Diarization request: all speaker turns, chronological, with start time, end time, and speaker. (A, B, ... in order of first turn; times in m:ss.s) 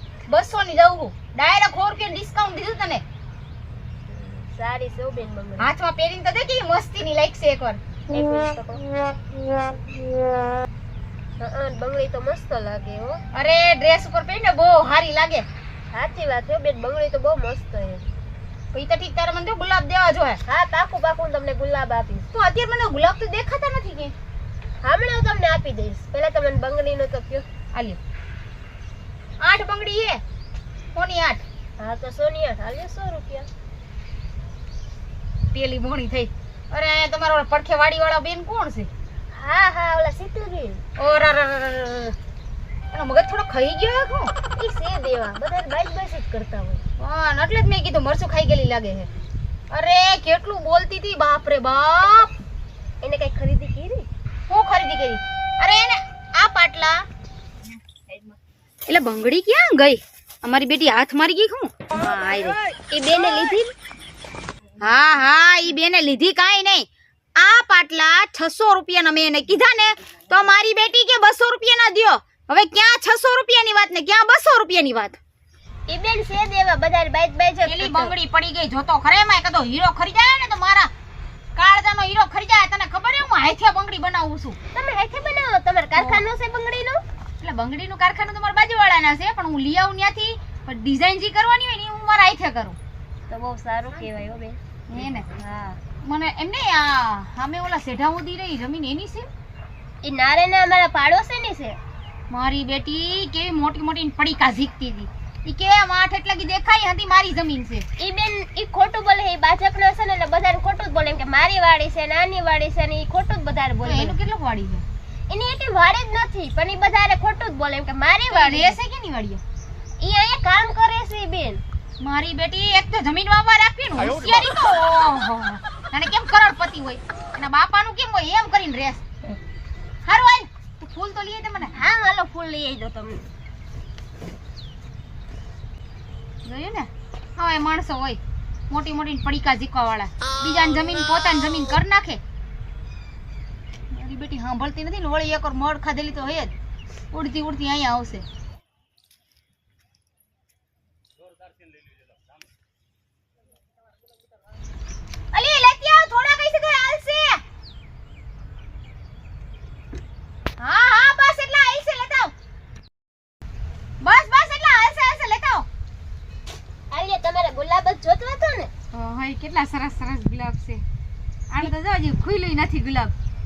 0:00.3-0:03.0 A
0:04.1-0:05.7 B
0:05.6-0:07.8 A
0:08.1-0:08.9 B
0:11.4-0:13.2 B
0:13.3-0:15.5 A
0:15.9-0:18.1 B
0:18.7-0:20.4 A
0:20.5-0:22.3 B
0:22.3-0:24.1 A
0:24.8-0:27.5 B
0:27.7-0:28.0 A
0:29.4-0:30.2 A
0:31.0-0:31.4 A
0:31.8-0:33.5 B
0:35.5-0:38.9 A
0:39.3-0:40.8 B
0:41.0-0:42.2 A
0:42.9-0:44.3 A
0:44.6-0:46.8 B
0:47.0-0:49.1 A
0:49.7-0:52.3 A
0:53.0-0:54.1 B
0:54.5-0:57.0 A
0:58.9-1:02.6 A
1:02.9-1:03.7 B
1:04.8-1:15.2 A
1:15.9-1:18.2 B
1:17.6-1:20.9 A
1:21.6-1:24.6 A
1:24.7-1:27.0 B
1:26.0-1:26.2 A
1:27.4-1:32.8 A
1:33.3-1:35.8 B
1:34.9-1:35.3 A
1:36.0-1:39.3 A
1:40.0-1:41.8 B
1:42.3-1:47.9 A
1:48.0-1:54.2 B
1:53.8-1:54.8 A
1:55.3-1:58.8 B
1:58.3-1:59.4 A
2:00.0-2:01.6 B
2:02.0-2:09.0 A
2:10.0-2:11.8 A
2:11.7-2:13.2 B
2:16.4-2:22.2 A
2:23.9-2:26.5 A
2:27.1-2:28.2 A
2:35.3-2:37.4 A
2:40.6-2:42.3 A
2:44.0-2:45.7 A
2:46.9-2:48.7 B
2:48.9-2:50.8 A
2:51.5-2:53.1 A